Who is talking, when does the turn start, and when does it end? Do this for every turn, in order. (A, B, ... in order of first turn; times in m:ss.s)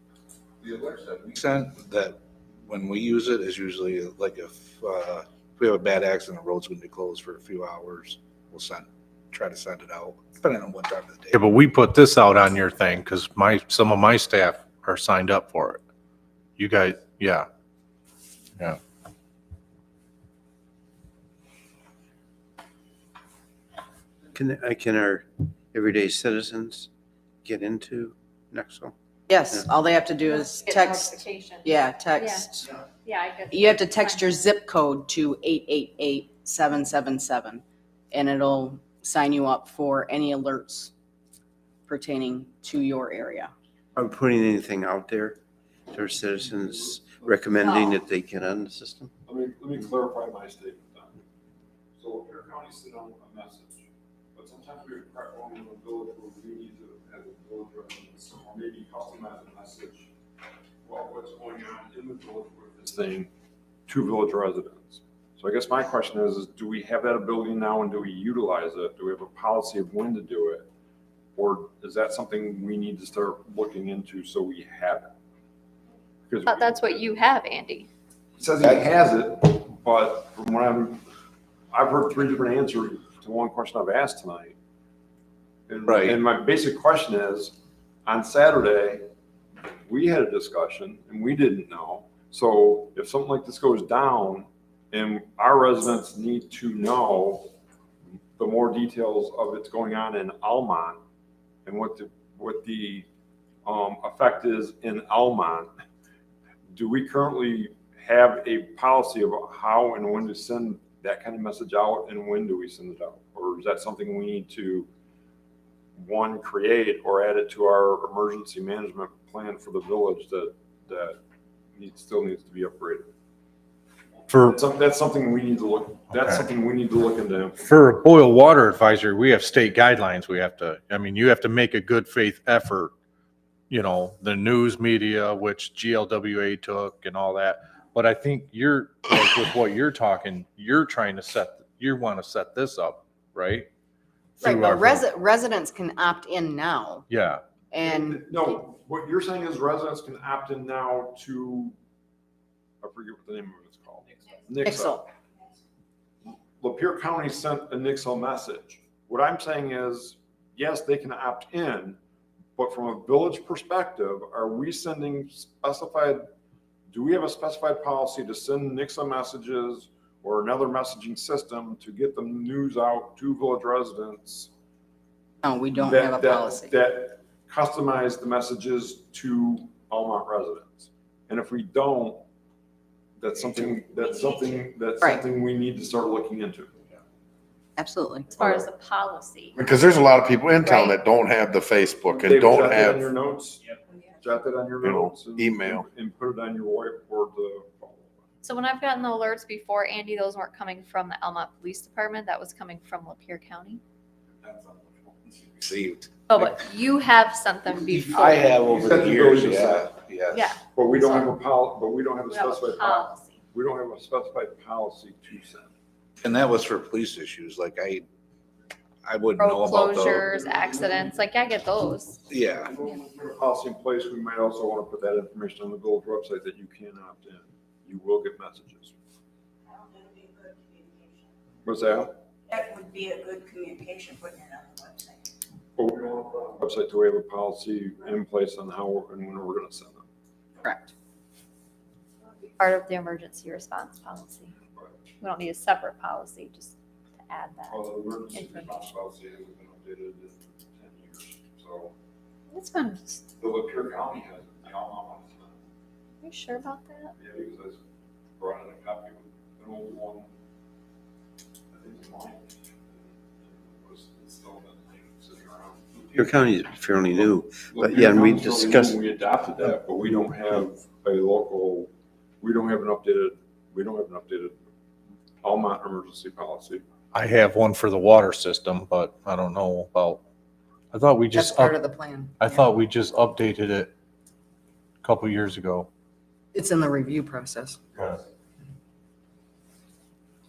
0:00.6-0:11.5 A
0:11.3-0:15.8 B
0:16.6-0:17.5 B
0:24.3-0:26.9 C
0:27.4-0:28.9 C
0:29.3-0:32.7 D
0:30.2-0:34.3 E
0:33.5-0:40.9 D
0:41.8-0:43.5 D
0:44.0-0:49.1 C
0:47.2-0:47.8 F
0:49.2-0:51.2 F
0:52.0-1:00.1 F
1:00.8-1:03.3 F
1:03.9-1:10.7 F
1:11.4-1:15.1 F
1:16.3-1:17.1 F
1:16.4-1:17.9 E
1:18.4-1:21.0 F
1:21.7-1:24.6 F
1:25.7-1:29.0 F
1:29.8-1:37.5 F
1:38.4-1:41.0 F
1:41.6-1:43.0 F
1:43.6-1:45.7 F
1:46.7-1:54.9 F
1:56.0-2:01.2 F
2:01.8-2:03.1 F
2:04.3-2:04.6 B
2:04.4-2:07.6 F
2:06.1-2:06.4 B
2:07.6-2:12.9 B
2:13.7-2:23.7 B
2:24.4-2:25.0 B
2:24.4-2:27.1 D
2:27.1-2:27.4 B
2:27.7-2:28.2 D
2:27.8-2:31.7 F
2:32.8-2:35.0 F
2:34.6-2:35.1 D
2:36.2-2:42.0 F
2:42.6-2:46.2 F
2:46.9-2:54.5 F
2:55.4-2:56.7 D
2:55.8-3:02.2 F
3:03.2-3:06.7 F
3:07.8-3:08.3 D
3:08.3-3:09.5 E
3:09.5-3:13.1 G
3:10.7-3:11.0 E
3:12.2-3:13.6 F
3:14.2-3:18.2 F
3:14.8-3:15.8 G
3:18.4-3:23.8 E
3:24.5-3:24.9 A
3:25.6-3:26.1 A
3:26.3-3:28.4 E
3:27.8-3:30.5 A
3:28.5-3:30.0 F
3:30.3-3:31.3 E
3:30.7-3:35.7 F
3:32.3-3:33.4 E
3:36.2-3:38.0 A
3:39.0-3:40.2 A
3:39.4-3:42.2 E
3:42.3-3:42.7 A
3:43.1-3:48.9 F
3:49.7-3:51.2 H
3:51.6-3:52.1 F
3:52.5-3:55.2 H
3:55.8-4:00.0 F
4:00.6-4:00.9 D
4:02.6-4:04.5 E
4:05.2-4:06.7 E
4:07.3-4:08.9 E
4:07.7-4:11.9 F
4:12.5-4:13.2 E
4:13.4-4:15.6 F
4:16.2-4:17.1 E
4:17.2-4:17.8 F
4:18.4-4:20.3 F
4:21.7-4:26.2 F
4:26.1-4:29.0 C
4:27.1-4:31.9 F
4:32.4-4:34.6 F
4:35.4-4:36.8 F
4:37.1-4:40.2 B
4:40.9-4:41.8 B
4:41.3-4:42.7 D
4:42.4-4:43.9 B
4:45.0-4:45.9 B
4:46.5-4:47.8 D